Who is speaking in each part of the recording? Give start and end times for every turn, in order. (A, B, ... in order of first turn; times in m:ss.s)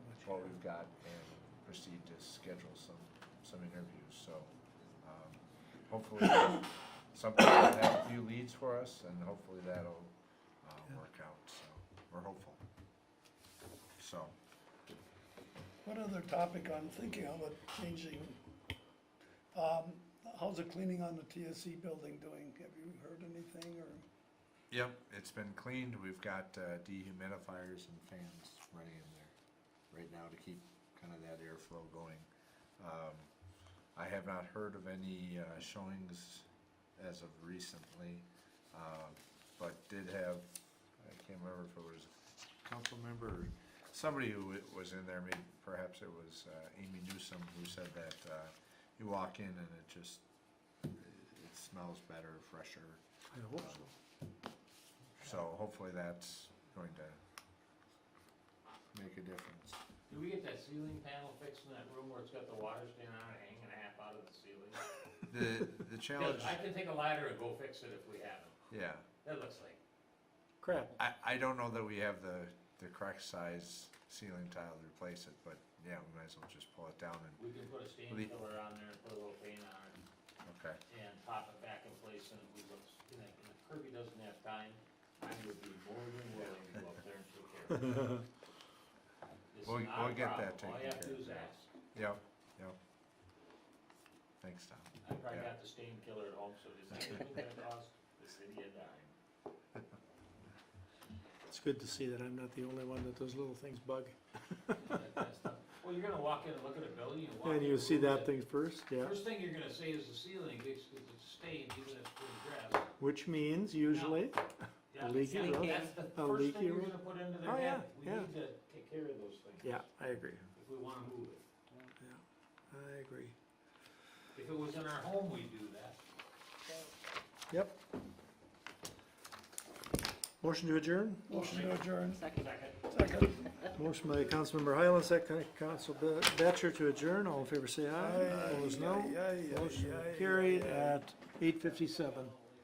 0:00.2-0:12.6 A
0:14.0-0:14.3 A
0:15.8-0:18.4 B
0:19.5-0:24.0 B
0:24.7-0:29.3 A
0:29.9-0:32.2 A
0:32.8-0:33.3 A
0:33.9-0:42.1 A
0:42.6-0:50.2 A
0:50.9-0:53.0 A
0:53.3-0:53.9 C
0:53.6-0:53.9 A
0:55.2-0:57.2 A
0:58.9-0:59.8 A
1:00.1-1:04.8 D
1:05.3-1:06.6 A
1:06.2-1:08.6 D
1:08.7-1:09.0 A
1:09.2-1:09.8 D
1:10.6-1:11.0 C
1:11.0-1:17.4 A
1:17.4-1:20.0 D
1:20.4-1:20.8 A
1:20.9-1:28.2 D
1:29.5-1:31.7 D
1:29.6-1:32.8 A
1:34.4-1:35.5 A
1:35.0-1:39.1 D
1:41.5-1:44.8 C
1:44.8-1:48.4 D
1:47.4-1:49.1 C
1:48.9-1:52.9 D
1:53.0-1:54.4 C
1:53.9-1:54.2 D
1:54.9-1:59.8 D
1:55.0-1:58.3 C
1:59.6-2:00.4 C
2:00.5-2:01.4 D
2:02.0-2:03.3 C
2:04.3-2:06.0 D
2:07.5-2:07.8 C
2:10.4-2:11.3 C
2:11.3-2:12.3 B
2:11.3-2:12.9 D
2:12.9-2:13.5 B
2:13.6-2:22.3 C
2:17.9-2:21.0 B
2:18.0-2:18.5 D
2:21.8-2:22.4 D